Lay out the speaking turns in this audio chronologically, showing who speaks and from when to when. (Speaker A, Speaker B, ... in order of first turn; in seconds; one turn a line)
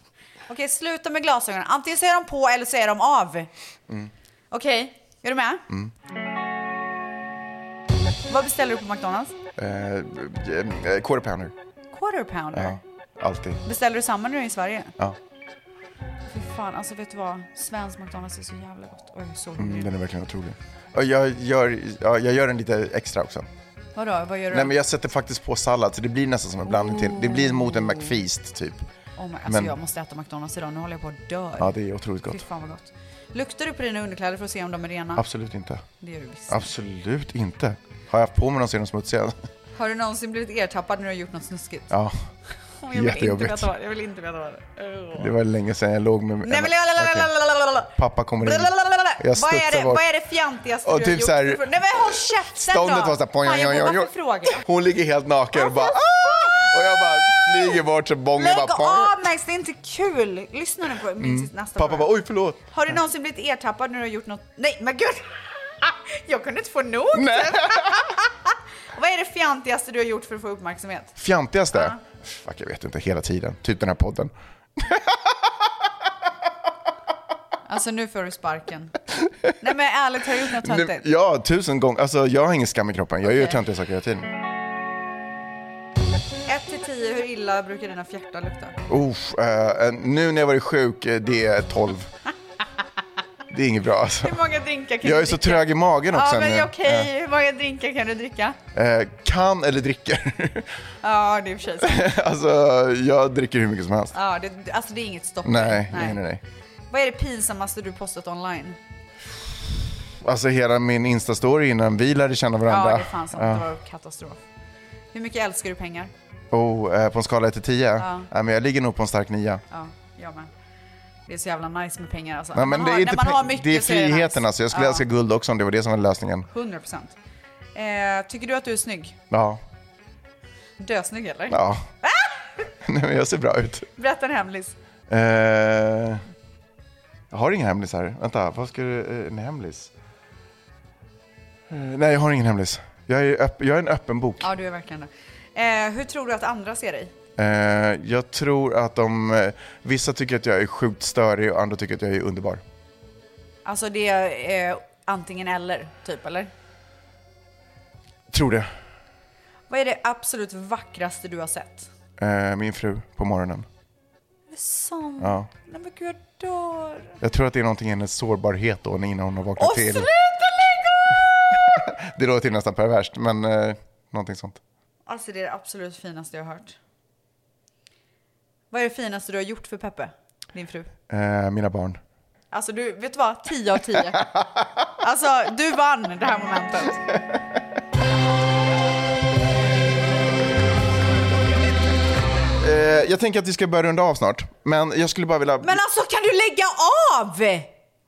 Speaker A: 0.5-3.5
Speaker A: 4.5-5.6
Speaker A: 8.3-9.3
Speaker B: 9.6-11.5
Speaker A: 11.9-12.8
Speaker B: 12.5-13.6
Speaker A: 13.6-14.9
Speaker A: 16.3-19.9
Speaker B: 19.6-23.4
Speaker A: 23.9-24.7
Speaker B: 24.5-28.8
Speaker A: 26.7-27.9
Speaker A: 29.2-31.7
Speaker B: 29.5-29.7
Speaker B: 31.6-32.4
Speaker A: 32.3-35.2
Speaker B: 35.1-35.8
Speaker A: 36.0-36.6
Speaker B: 36.5-39.4
Speaker A: 39.8-41.9
Speaker B: 41.9-42.1
Speaker A: 42.8-45.3
Speaker B: 42.9-43.6
Speaker B: 45.1-47.3
Speaker A: 46.4-54.6
Speaker B: 48.0-50.0
Speaker B: 50.9-59.2
Speaker A: 55.5-57.8
Speaker A: 58.4-62.1
Speaker B: 61.2-62.7
Speaker A: 62.7-71.2
Speaker B: 67.1-68.0
Speaker B: 71.2-75.4
Speaker A: 71.7-72.0
Speaker A: 77.7-79.0
Speaker A: 79.6-81.0
Speaker B: 80.6-84.3
Speaker A: 83.3-83.6
Speaker A: 86.5-88.8
Speaker B: 88.9-92.1
Speaker B: 93.5-94.3
Speaker A: 94.2-98.6
Speaker B: 95.0-97.1
Speaker B: 98.7-100.7
Speaker A: 101.0-102.1
Speaker B: 101.8-104.1
Speaker A: 104.1-106.2
Speaker B: 105.4-106.4
Speaker A: 106.9-108.8
Speaker B: 110.2-113.7
Speaker A: 112.7-114.4
Speaker A: 115.1-116.1
Speaker B: 116.5-119.6
Speaker A: 118.0-118.3
Speaker A: 119.7-120.5
Speaker A: 121.3-125.0
Speaker B: 122.5-126.5
Speaker A: 126.5-127.1
Speaker A: 127.7-129.2
Speaker B: 129.3-129.6
Speaker A: 130.8-132.3
Speaker B: 131.5-131.8
Speaker B: 132.8-133.9
Speaker A: 134.0-134.7
Speaker B: 135.1-136.2
Speaker B: 137.3-139.9
Speaker B: 141.7-144.5
Speaker A: 144.4-147.1
Speaker B: 147.4-152.6
Speaker A: 153.6-156.5
Speaker B: 158.3-158.7
Speaker A: 159.7-161.9
Speaker B: 162.2-163.7
Speaker A: 164.5-167.2
Speaker B: 165.2-165.5
Speaker B: 167.2-170.1
Speaker A: 169.6-171.8
Speaker B: 171.5-174.6
Speaker A: 175.1-176.8
Speaker A: 178.7-180.9
Speaker B: 181.1-182.0
Speaker A: 182.5-184.3
Speaker A: 185.0-187.1
Speaker B: 192.6-195.8
Speaker A: 195.6-197.7